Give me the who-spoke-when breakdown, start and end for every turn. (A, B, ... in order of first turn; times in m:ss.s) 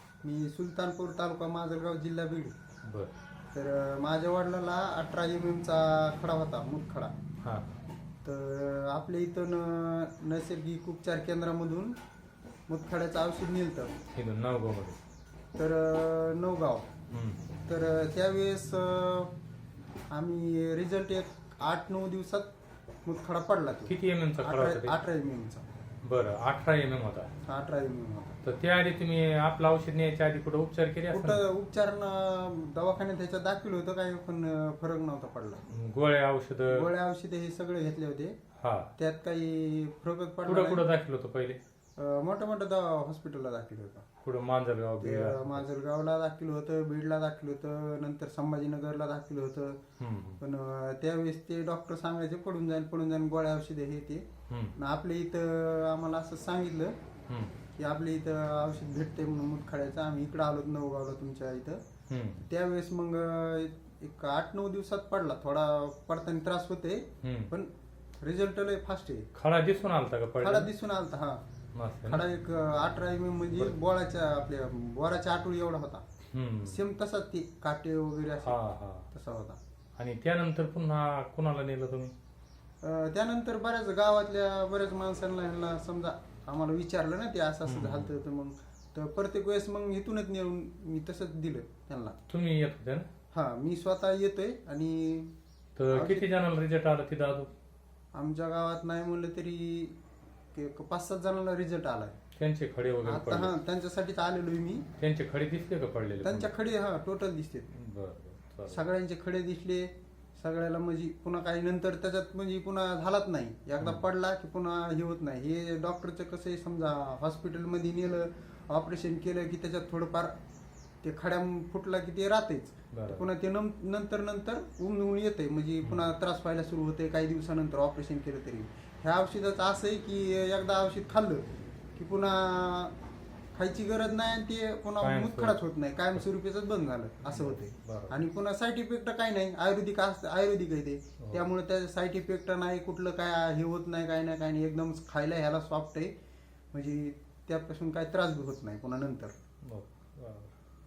0:00.2-0:02.5 A
0:02.8-0:03.1 B
0:03.5-0:07.1 A
0:07.4-0:07.8 B
0:08.2-0:11.9 A
0:12.7-0:14.0 A
0:14.1-0:15.0 B
0:15.6-0:16.9 A
0:17.1-0:17.4 B
0:17.7-0:19.3 A
0:20.1-0:22.5 A
0:23.0-0:25.6 A
0:23.9-0:25.0 B
0:26.0-0:27.3 B
0:27.4-0:28.4 A
0:28.4-0:31.4 B
0:31.1-0:35.6 A
0:35.7-0:36.9 B
0:36.7-0:38.4 A
0:38.6-0:38.9 B
0:39.0-0:40.8 A
0:40.4-0:41.6 B
0:42.0-0:44.0 A
0:44.2-0:45.6 B
0:45.0-0:49.8 A
0:50.0-0:50.4 B
0:50.4-0:56.9 A
0:54.5-0:54.7 B
0:57.8-1:01.8 A
1:02.1-1:02.4 B
1:02.5-1:07.7 A
1:07.2-1:07.5 B
1:08.2-1:09.3 A
1:09.3-1:10.7 B
1:10.4-1:11.4 A
1:11.7-1:12.2 B
1:12.0-1:16.0 A
1:16.3-1:16.8 B
1:16.6-1:18.6 A
1:18.4-1:19.1 B
1:19.1-1:19.6 A
1:20.0-1:22.1 B
1:22.8-1:32.2 A
1:27.6-1:28.1 B
1:32.3-1:33.1 B
1:33.3-1:35.3 A
1:35.8-1:37.5 B
1:35.9-1:36.3 A
1:38.1-1:40.0 A
1:40.5-1:42.2 A
1:42.4-1:43.5 B
1:43.0-1:44.8 A
1:45.0-1:46.5 B
1:46.2-1:47.7 A
1:47.7-1:48.8 B
1:48.7-2:00.3 A
2:01.0-2:11.4 A
2:02.9-2:03.3 B
2:12.0-2:12.9 A
2:13.5-2:26.1 A
2:15.0-2:15.6 B
2:17.2-2:18.1 B
2:21.2-2:21.5 B
2:26.7-2:29.3 A
2:29.7-2:30.5 B